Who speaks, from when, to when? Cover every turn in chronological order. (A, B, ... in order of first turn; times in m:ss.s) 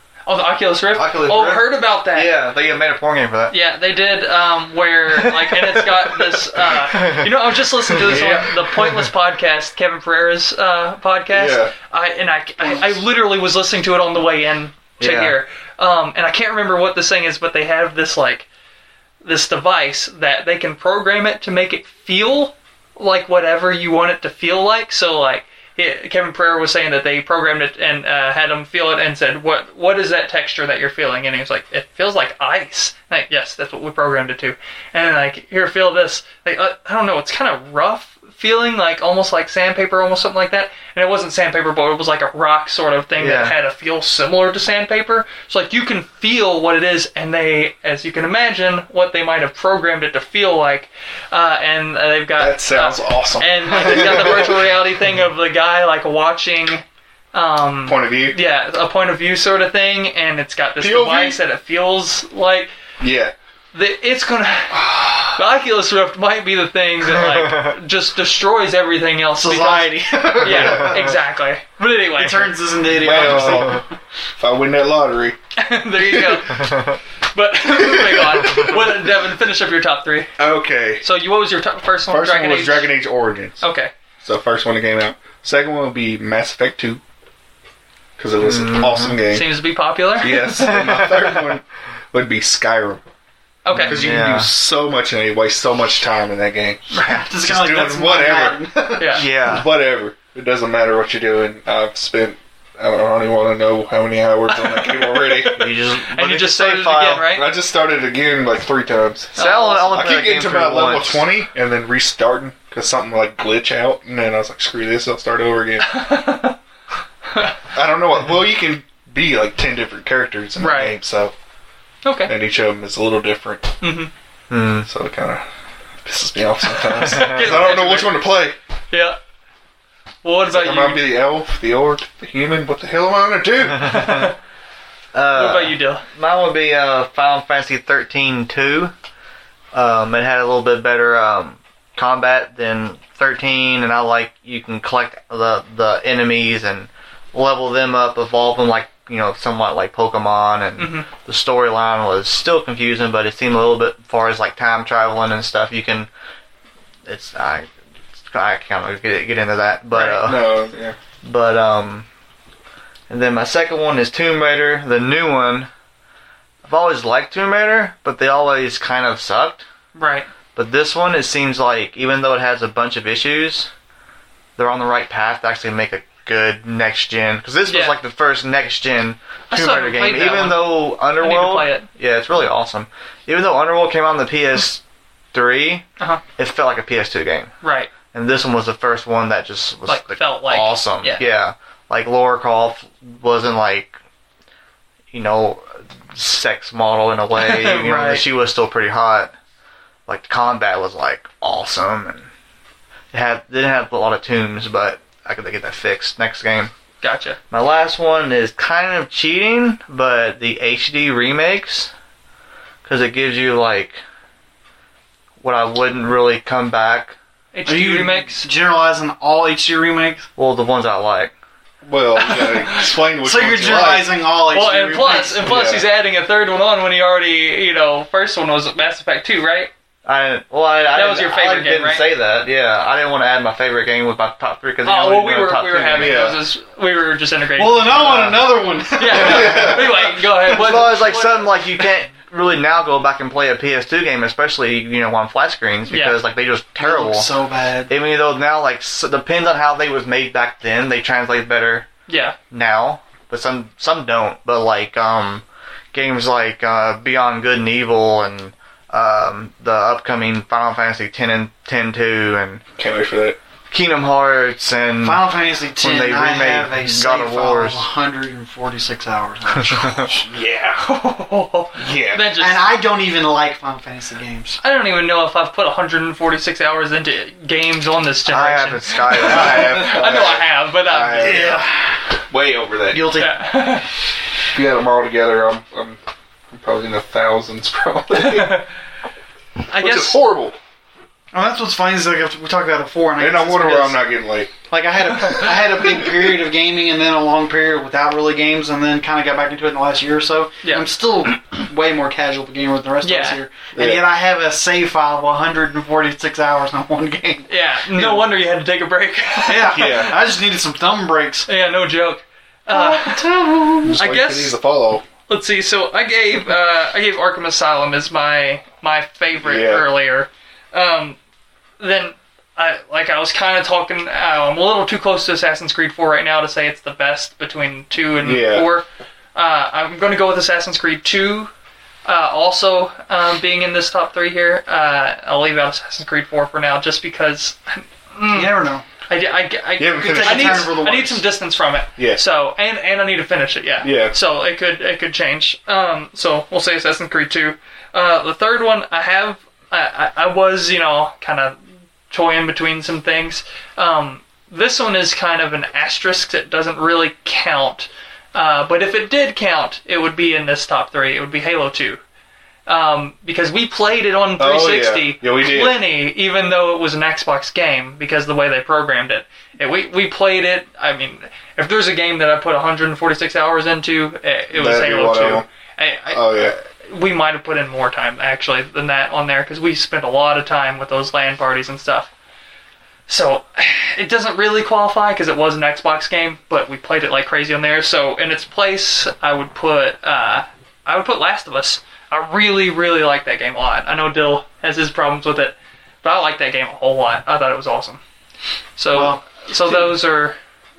0:00.3-0:02.3 A
0:00.9-0:03.5 B
0:03.5-0:18.5 A
0:06.9-0:07.3 B
0:08.0-0:08.7 C
0:11.3-0:11.7 C
0:15.0-0:15.4 B
0:19.2-1:02.7 A
0:43.2-0:43.6 B
0:52.4-0:54.6 C
0:57.8-0:58.4 C
1:00.8-1:01.4 C
1:03.0-1:03.3 C
1:03.7-1:12.6 A
1:07.2-1:07.7 B
1:09.4-1:11.0 D
1:10.3-1:11.1 C
1:12.1-1:13.9 D
1:12.8-1:13.8 C
1:14.4-1:15.4 C
1:15.6-1:20.3 A
1:16.1-1:16.5 C
1:17.7-1:18.8 C
1:20.4-1:21.0 C
1:21.0-1:22.9 A
1:22.1-1:23.6 C
1:23.6-1:23.9 A
1:24.2-1:27.0 C
1:28.2-1:29.5 C
1:28.4-1:29.2 B
1:29.3-1:30.6 A
1:30.2-1:33.0 C
1:30.6-1:31.4 B
1:33.6-1:34.0 A
1:33.7-1:34.5 B
1:33.8-1:38.7 C
1:36.9-1:39.2 D
1:39.0-1:39.2 A
1:39.1-1:39.7 B
1:39.4-1:45.7 C
1:44.5-1:47.5 A
1:45.6-1:47.3 B
1:47.3-1:56.1 C
1:49.3-1:51.2 B
1:49.4-1:50.0 A
1:55.8-1:56.6 A
1:57.7-2:01.3 C
2:00.6-2:00.9 A
2:02.0-2:02.3 A
2:02.2-2:03.7 C
2:03.8-2:04.1 A
2:04.5-2:04.9 B
2:04.8-2:05.4 C
2:06.0-2:08.6 C
2:06.9-2:08.3 A
2:08.9-2:09.2 A
2:10.2-2:11.0 A
2:10.5-2:14.3 C
2:13.8-2:14.3 A
2:15.1-2:18.9 B
2:15.3-2:16.0 A
2:19.7-2:36.1 B
2:30.8-2:31.1 A
2:37.0-2:37.7 B
2:38.3-2:40.4 B
2:39.9-2:40.2 A
2:40.2-2:41.0 C
2:41.2-2:42.1 B
2:43.1-2:45.7 B
2:46.6-2:49.6 B
2:49.9-2:50.3 A
2:50.6-2:53.7 B
2:54.6-3:04.8 B
2:57.7-2:58.0 A
2:59.5-3:01.9 A
3:05.3-3:05.8 B
3:06.4-3:07.5 B
3:07.6-3:07.9 A
3:08.1-3:14.0 B
3:09.8-3:11.2 A
3:15.1-3:19.3 B
3:17.4-3:18.2 A
3:20.1-3:22.3 B
3:23.1-3:26.7 B
3:27.0-3:27.4 A
3:27.5-3:31.9 B
3:32.8-3:34.0 B
3:35.4-3:37.2 B
3:37.5-3:38.5 A
3:37.6-3:40.3 D
3:40.4-3:41.3 B
3:41.8-3:44.2 C
3:42.3-3:42.9 A
3:43.2-3:45.5 D
3:44.5-3:49.7 A
3:45.4-3:45.9 C
3:50.0-3:56.3 B
3:50.9-3:52.0 A
3:54.8-4:01.5 A
3:56.0-3:56.4 C
3:57.6-4:00.6 D
3:59.1-3:59.9 C
4:00.5-4:07.3 B
4:05.9-4:06.2 A
4:06.8-4:07.9 D
4:07.9-4:11.9 B
4:12.1-4:12.4 A
4:12.5-4:22.6 B
4:22.8-4:23.4 C
4:23.7-4:27.8 B
4:25.0-4:30.3 D
4:29.6-4:30.0 B
4:30.2-4:30.8 C
4:30.8-4:32.6 A
4:31.8-4:32.3 C
4:32.3-4:34.6 D
4:34.6-4:41.6 A
4:38.2-4:39.7 B
4:39.1-4:41.7 C
4:41.2-4:42.0 D
4:42.3-4:43.2 C
4:42.9-4:43.6 D
4:43.1-4:43.9 A
4:44.5-4:46.0 C
4:46.5-4:48.6 C
4:48.1-4:48.7 A
4:49.7-4:50.2 A
4:49.7-4:50.6 C
4:51.3-4:54.1 D
4:53.2-4:54.5 C
4:54.7-5:08.3 D
5:03.0-5:03.4 A
5:03.7-5:04.1 C
5:07.5-5:10.0 A
5:09.4-5:11.5 D
5:09.7-5:10.1 C
5:11.4-5:13.4 A
5:12.7-5:14.0 D
5:13.7-5:15.0 C
5:13.9-5:14.6 A
5:15.3-5:21.2 A
5:19.4-5:19.8 C
5:21.8-5:31.5 A
5:28.2-5:28.7 C
5:32.0-5:51.6 A
5:38.3-5:38.8 D
5:39.8-5:40.8 C
5:39.9-5:41.2 D
5:42.0-5:42.2 C
5:43.8-5:44.1 C
5:52.1-6:02.0 A
6:02.7-6:22.1 A
6:04.4-6:05.8 C
6:14.5-6:15.4 C
6:16.1-6:16.5 C
6:23.1-6:38.0 A
6:38.8-6:40.4 A
6:38.9-6:39.9 D